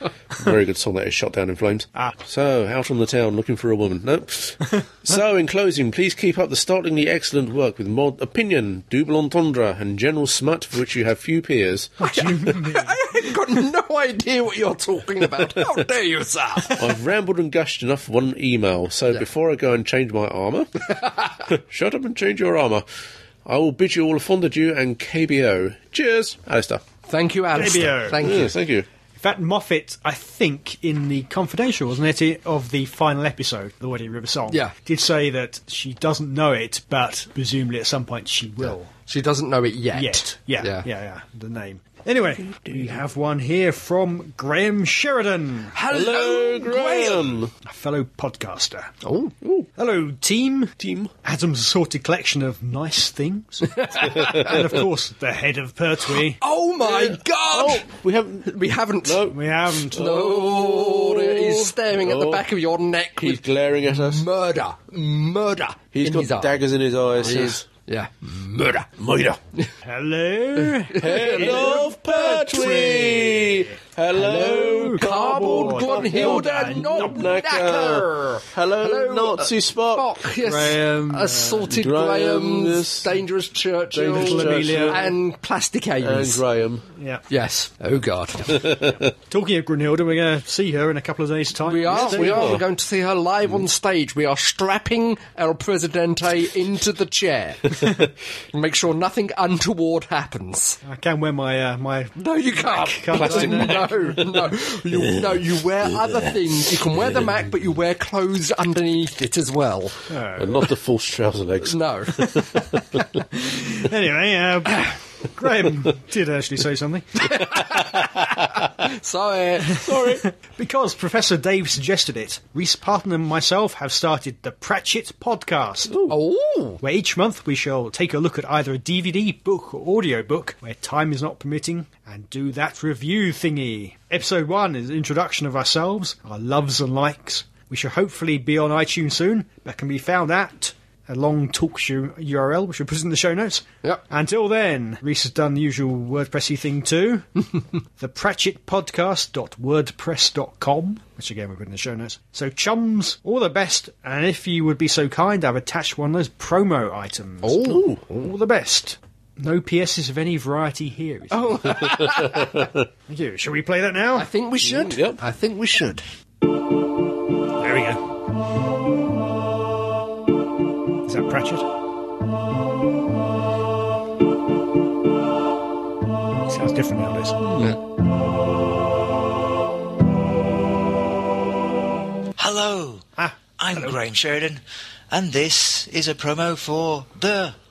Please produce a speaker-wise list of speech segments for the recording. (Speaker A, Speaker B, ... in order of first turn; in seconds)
Speaker A: 0.3-12.3, 16.8-22.8, 23.4-26.8, 28.2-28.9, 42.5-43.0, 45.9-47.5, 49.4-49.7, 50.8-51.1, 56.8-62.5, 63.2-64.2, 65.9-67.6, 69.0-69.4, 71.0-80.3, 81.7-83.2, 83.9-85.2, 86.0-86.9, 88.5-89.1, 91.9-92.6, 103.1-105.4, 106.0-106.3, 110.4-113.0, 117.8-118.2, 119.7-120.2, 125.9-126.2, 157.6-158.0, 161.8-162.8, 164.6-165.2, 177.4-177.8
Speaker B: 12.0-12.9, 27.5-28.3, 29.1-38.9, 39.9-45.7, 47.6-48.9, 49.8-56.4, 59.3-60.0, 69.8-73.7, 74.3-77.3, 80.4-81.7, 84.1-85.1, 87.0-87.2, 89.3-92.4, 100.8-104.2, 110.1-110.6, 113.3-117.4, 120.0-125.9, 126.8-147.3, 148.0-157.6, 158.2-161.7, 163.1-164.3, 167.6-168.0, 171.1-171.7, 176.4-177.4, 183.2-183.9
Speaker C: 12.0-16.8, 27.1-28.5, 38.6-40.9, 45.7-47.4, 49.0-49.3, 53.8-54.5, 56.4-57.9, 58.4-59.3, 59.9-66.6, 67.2-68.9, 70.7-73.0, 74.1-86.4, 87.3-88.6, 91.6-97.8, 98.5-100.8, 102.2-110.0, 111.6-112.4, 117.3-119.8, 126.1-126.8, 157.4-158.3, 161.3-162.6, 164.1-166.0
Speaker D: 182.4-183.1, 183.6-187.6